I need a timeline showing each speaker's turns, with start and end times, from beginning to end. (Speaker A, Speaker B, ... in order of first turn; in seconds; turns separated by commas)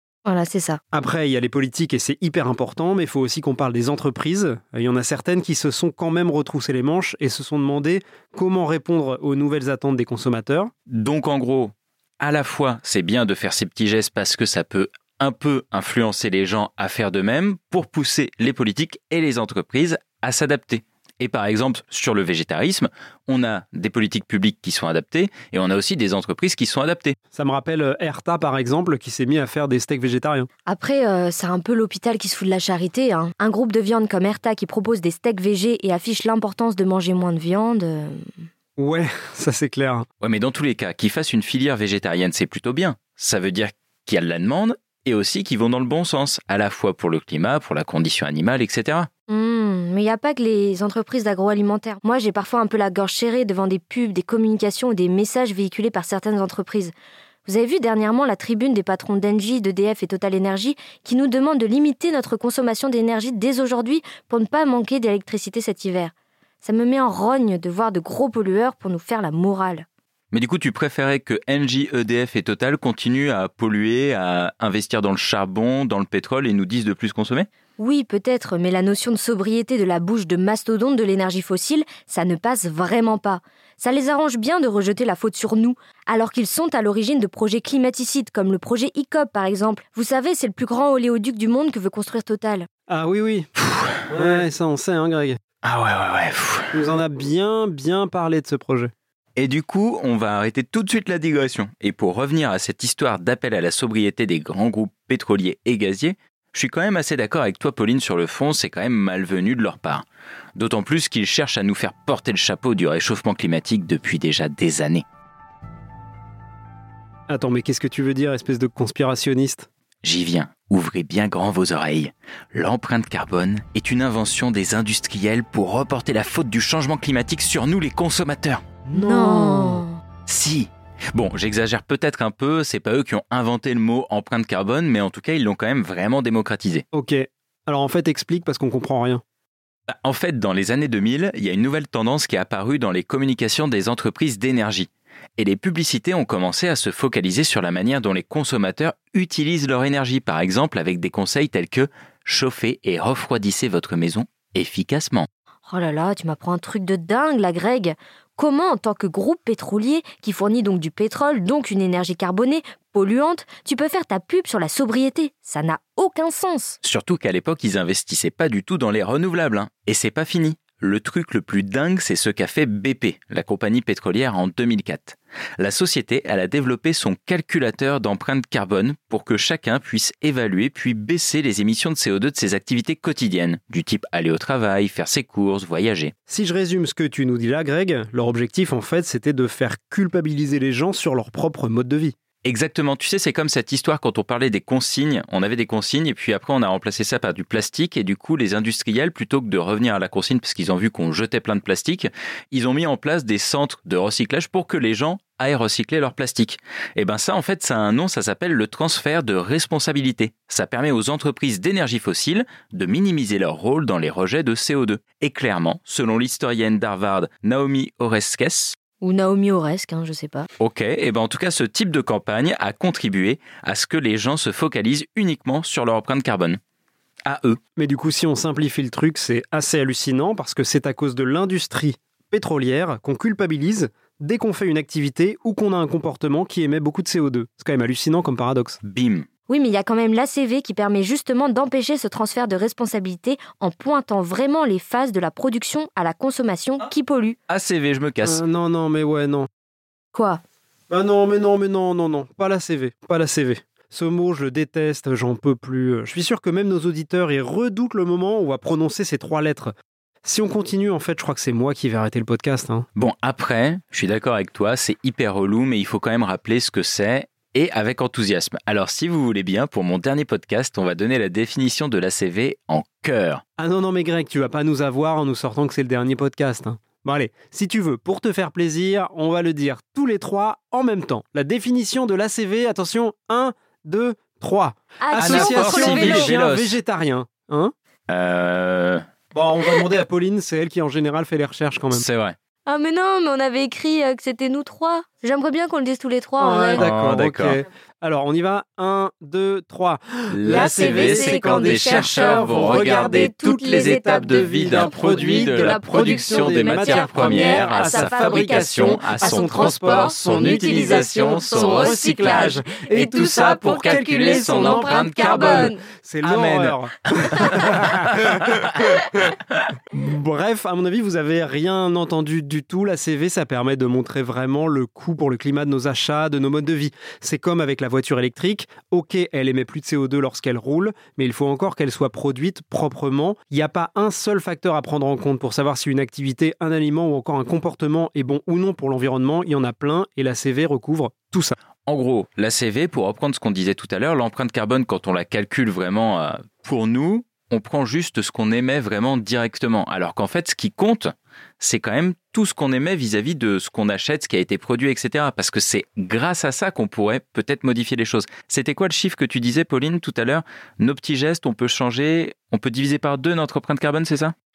Speaker A: 0.2-0.8, Speaker B: 0.9-10.7, Speaker C: 10.9-27.1, Speaker B: 27.3-30.5, Speaker A: 30.6-38.3, Speaker B: 38.8-40.0, Speaker C: 40.2-49.1, Speaker A: 49.3-56.9, Speaker A: 57.5-69.8, Speaker C: 70.3-77.5, Speaker A: 77.8-92.7, Speaker B: 92.9-93.5, Speaker C: 93.6-94.4, Speaker B: 94.1-95.4, Speaker C: 95.6-96.7, Speaker B: 96.7-98.9, Speaker C: 99.3-110.0, Speaker C: 110.5-115.0, Speaker B: 117.3-119.7, Speaker C: 120.0-128.6, Speaker B: 128.8-129.8, Speaker A: 128.9-130.0, Speaker C: 130.3-136.8, Speaker B: 136.9-139.2, Speaker C: 139.9-155.3, Speaker A: 155.7-166.8, Speaker C: 166.8-186.1, Speaker B: 186.3-192.2, Speaker C: 192.4-218.8, Speaker A: 219.0-220.5, Speaker C: 220.6-226.6, Speaker C: 227.2-227.6, Speaker B: 227.8-238.8, Speaker C: 238.8-239.2, Speaker A: 239.5-247.4, Speaker C: 247.5-248.4, Speaker B: 248.2-249.5, Speaker A: 250.1-250.4, Speaker B: 250.9-262.9, Speaker C: 262.9-273.4, Speaker B: 273.6-287.7, Speaker A: 285.0-286.3, Speaker C: 285.1-286.8, Speaker C: 288.1-289.0, Speaker B: 289.3-292.0, Speaker C: 291.9-292.4, Speaker A: 292.7-296.8, Speaker B: 296.4-319.3, Speaker C: 296.7-297.6, Speaker C: 300.3-315.7, Speaker A: 300.5-315.8, Speaker C: 316.2-318.9, Speaker B: 319.9-341.5, Speaker C: 341.9-364.3